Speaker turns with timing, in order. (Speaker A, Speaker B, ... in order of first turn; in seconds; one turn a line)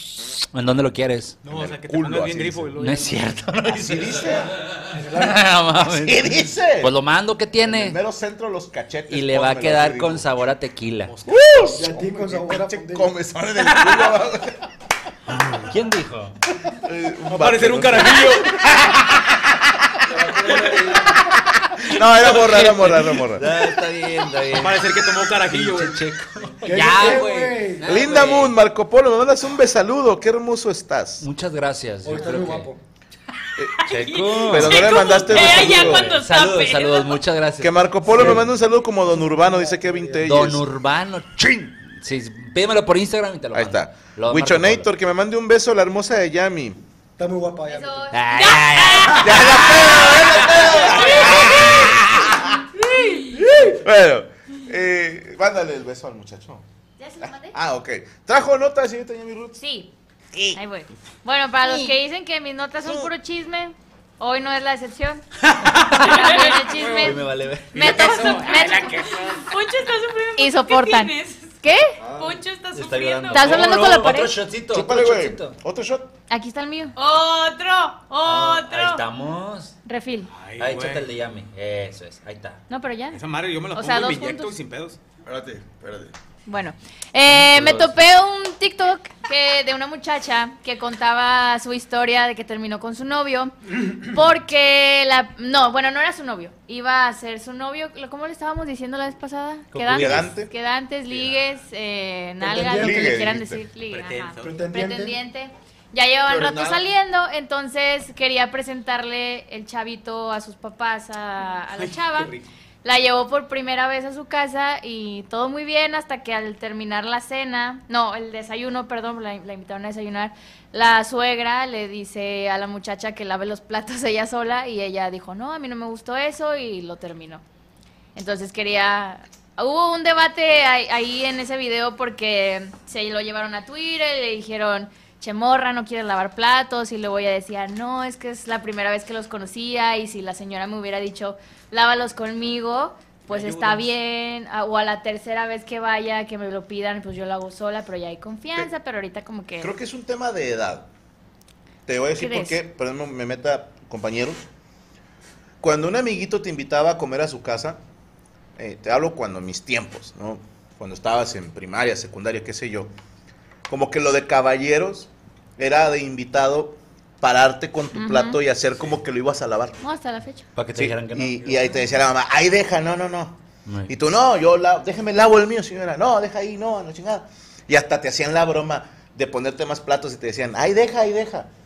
Speaker A: 0.4-1.4
Speaker B: 1.4-3.4
Speaker C: 1.4-2.7
Speaker A: 2.8-4.4
Speaker C: 3.6-4.5
Speaker D: 4.9-5.5
Speaker A: 4.9-6.3
Speaker C: 5.9-6.9
Speaker A: 6.8-8.0
Speaker C: 7.6-10.3
Speaker A: 9.1-11.1
Speaker B: 11.0-11.4
Speaker C: 11.2-14.6
Speaker D: 11.7-13.1
Speaker B: 13.8-14.1
Speaker A: 15.6-16.4
Speaker C: 16.7-19.9
Speaker B: 17.3-18.8
Speaker E: 20.1-20.9
Speaker C: 21.1-23.6
Speaker A: 21.9-24.9
Speaker B: 24.5-26.0
Speaker A: 25.4-28.6
Speaker D: 26.6-28.0
Speaker C: 27.8-31.3
Speaker A: 31.2-32.7
Speaker D: 32.0-32.8
Speaker C: 33.5-36.2
Speaker F: 33.7-37.2
Speaker A: 33.9-38.4
Speaker C: 37.6-40.6
Speaker D: 38.1-40.5
Speaker A: 40.2-44.9
Speaker C: 43.5-46.8
Speaker D: 47.2-48.1
Speaker G: 47.7-48.6
Speaker A: 48.1-50.1
Speaker F: 48.3-51.9
Speaker C: 49.1-52.6
Speaker G: 51.0-51.2
Speaker A: 51.7-52.0
Speaker F: 52.7-53.5
Speaker C: 53.4-56.6
Speaker G: 57.0-57.5
Speaker C: 57.2-59.6
Speaker G: 59.6-59.9
Speaker C: 60.3-60.6
Speaker G: 60.5-65.2
Speaker B: 65.5-65.9
Speaker G: 65.9-69.1
Speaker F: 66.1-66.8
Speaker A: 67.0-68.0
Speaker B: 67.7-69.5
Speaker F: 67.9-73.7
Speaker G: 70.4-72.0
Speaker E: 72.0-72.4
Speaker A: 72.7-75.6
Speaker G: 73.3-74.4
Speaker C: 74.7-76.1
Speaker G: 76.3-76.9
Speaker F: 76.9-79.0
Speaker A: 78.2-79.8
Speaker G: 79.8-80.3
Speaker B: 80.3-81.0
Speaker A: 80.6-82.6
Speaker G: 82.7-83.2
Speaker B: 83.1-85.0
Speaker G: 83.7-84.5
Speaker E: 85.2-86.1
Speaker G: 86.5-127.4
Speaker A: 87.3-88.0
Speaker A: 99.7-100.3
Speaker C: 99.9-100.5
Speaker B: 101.1-101.4
Speaker D: 102.4-103.3
Speaker C: 102.6-103.6
Speaker B: 103.9-104.5
Speaker D: 104.4-105.2
Speaker E: 106.3-106.8
Speaker B: 111.7-112.4
Speaker G: 128.1-149.7
Speaker B: 143.3-143.9
Speaker C: 149.6-150.9
Speaker C: 151.8-154.4
Speaker G: 152.2-152.6
Speaker C: 155.6-157.8
Speaker C: 158.6-162.9
Speaker C: 163.7-169.8
Speaker G: 167.9-168.4
Speaker G: 169.8-170.5
Speaker A: 170.5-171.6
Speaker C: 170.7-181.5
Speaker A: 173.7-173.9